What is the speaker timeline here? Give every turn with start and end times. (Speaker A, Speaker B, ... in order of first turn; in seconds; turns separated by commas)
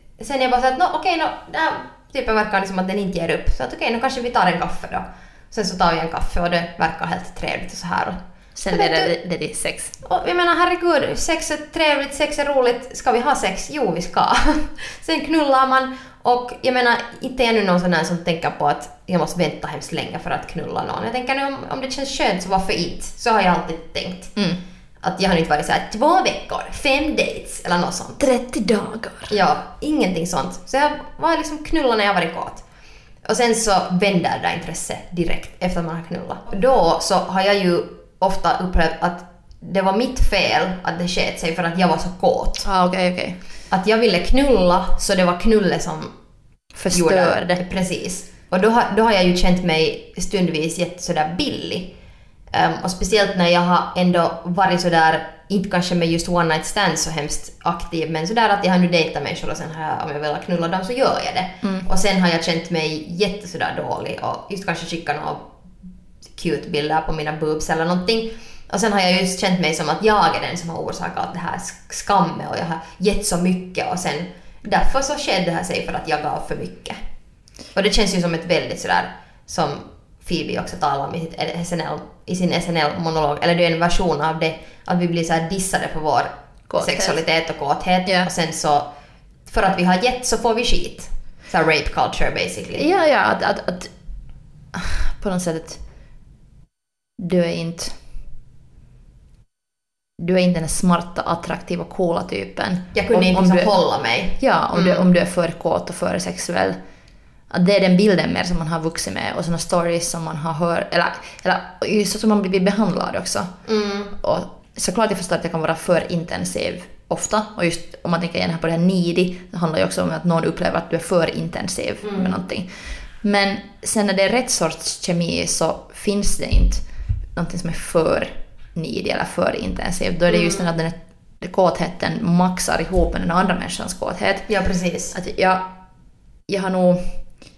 Speaker A: 0.2-8.2, Speaker B: 8.6-10.0, Speaker A: 8.7-9.1, Speaker A: 10.0-24.3, Speaker A: 25.0-28.2, Speaker B: 28.2-29.3, Speaker A: 29.3-32.6, Speaker A: 33.2-42.7, Speaker B: 42.6-43.4, Speaker A: 43.7-46.1, Speaker B: 46.8-47.6, Speaker A: 46.9-51.9, Speaker A: 52.5-65.5, Speaker B: 61.6-61.9, Speaker A: 66.4-77.0, Speaker A: 77.7-88.9, Speaker B: 86.7-87.2, Speaker A: 89.5-92.9, Speaker B: 92.8-93.9, Speaker B: 94.7-95.8, Speaker B: 97.2-98.0, Speaker B: 100.2-103.8, Speaker A: 102.9-105.1, Speaker B: 104.4-106.8, Speaker B: 107.5-113.5, Speaker A: 113.7-114.1, Speaker B: 114.2-122.7, Speaker A: 122.0-122.3, Speaker B: 123.2-126.8, Speaker B: 127.3-134.5, Speaker A: 130.3-130.7, Speaker A: 134.5-135.1, Speaker B: 135.1-135.7, Speaker B: 136.5-137.2